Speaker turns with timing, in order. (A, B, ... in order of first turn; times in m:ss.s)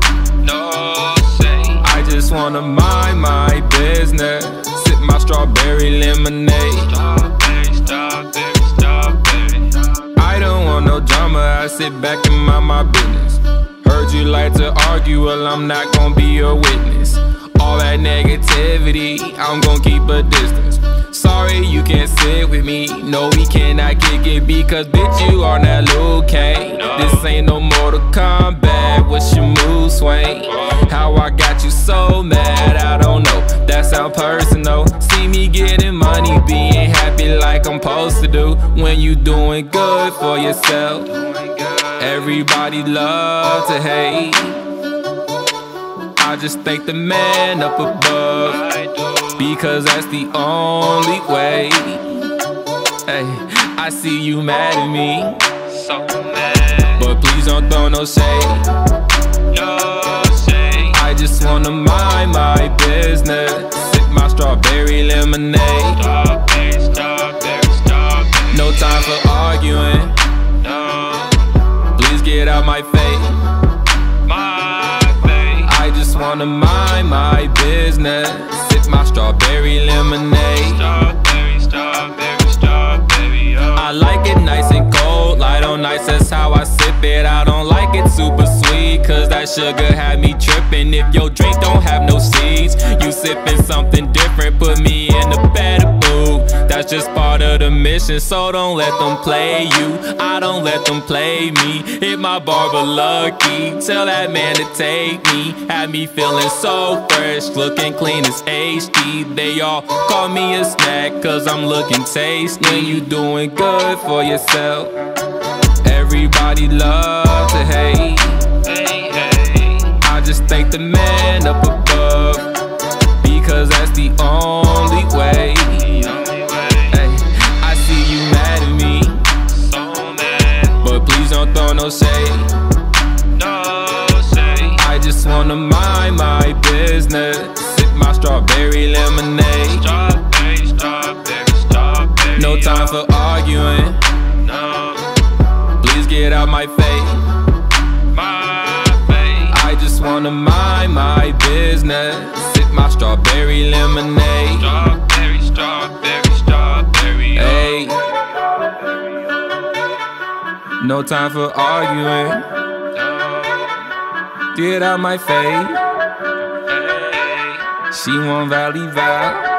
0:00.4-0:02.2 A
0:01.8-0:06.9 B
0:06.8-0:10.1 A
0:10.2-0:41.1 B
0:26.7-0:27.3 A
0:30.4-0:31.0 A
0:41.1-0:42.4 A
0:42.0-0:44.6 B
0:46.2-0:48.6 B
0:48.4-0:49.6 A
0:49.4-0:52.2 B
0:53.1-0:55.4 B
0:55.7-0:57.1 A
0:57.0-0:58.6 B
0:59.5-1:01.0 A
1:00.9-1:06.0 B
1:05.9-1:09.2 A
1:08.5-1:10.1 B
1:10.6-1:11.6 A
1:12.0-1:13.4 B
1:14.2-1:15.7 A
1:15.7-1:20.8 B
1:20.5-1:24.0 A
1:23.8-1:54.9 B
1:52.6-1:53.1 A
1:55.8-1:58.5 B
1:58.6-1:59.9 A
2:00.0-2:02.4 B
2:03.2-2:06.0 B
2:05.8-2:07.0 A
2:06.9-2:09.3 B
2:09.5-2:10.8 A
2:10.8-2:12.5 B
2:13.3-2:14.8 A
2:14.8-2:19.8 B
2:19.7-2:23.0 A
2:22.4-2:24.0 B
2:24.4-2:25.1 A
2:25.8-2:27.2 B
2:28.1-2:29.6 A
2:29.5-2:34.7 B
2:34.6-2:39.8 A
2:37.4-2:38.0 B
2:40.8-2:42.4 B
2:43.0-2:43.9 A
2:44.6-2:45.8 B
2:46.7-2:47.8 A
2:47.9-2:49.4 B